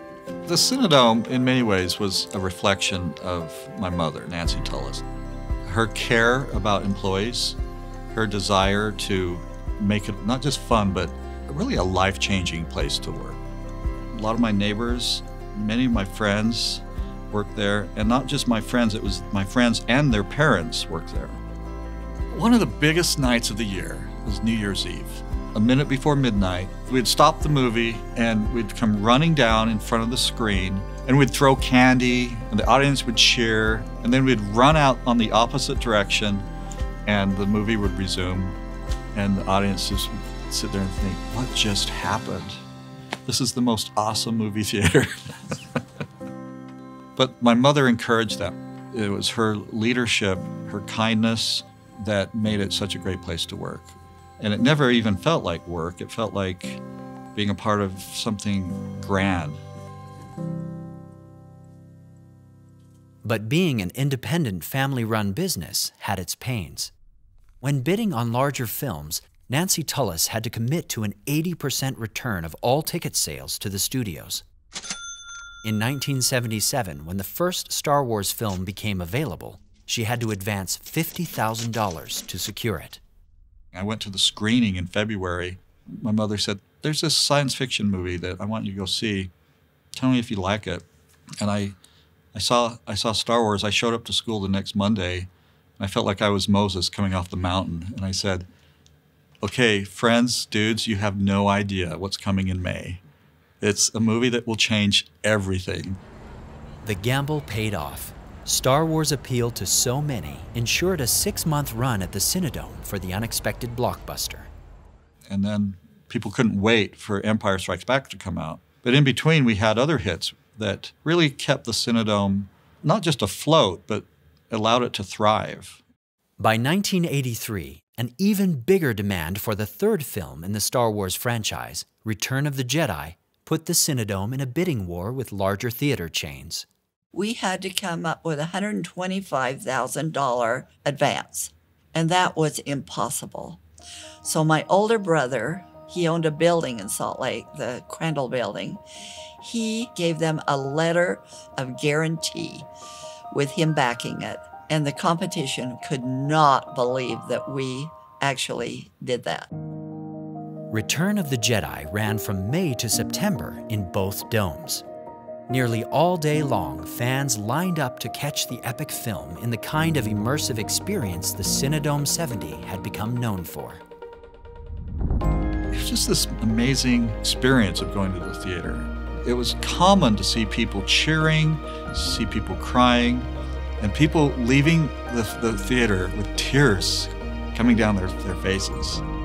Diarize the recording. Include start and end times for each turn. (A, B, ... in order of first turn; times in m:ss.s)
0:00.4-0:05.0 A
0:05.6-0:07.6 A
0:08.1-0:13.4 A
0:14.1-0:21.4 A
0:22.3-0:36.5 A
0:37.1-0:38.6 A
0:39.1-0:42.6 A
0:43.2-0:45.6 A
0:47.2-0:56.8 A
0:57.4-0:59.6 A
1:03.2-1:06.9 B
1:07.6-1:14.4 B
1:15.6-1:23.0 B
1:23.7-1:29.3 A
1:29.9-1:30.9 A
1:31.4-1:31.8 A
1:32.3-1:38.5 A
1:39.4-1:43.0 A
1:43.6-1:46.0 A
1:46.8-1:54.5 B
1:55.3-2:05.8 A
2:06.4-2:16.7 B
2:17.1-2:23.6 C
2:24.2-2:28.8 C
2:29.4-2:32.7 C
2:33.3-2:39.5 C
2:40.7-2:44.9 B
2:45.5-2:53.8 B
2:55.7-3:09.0 A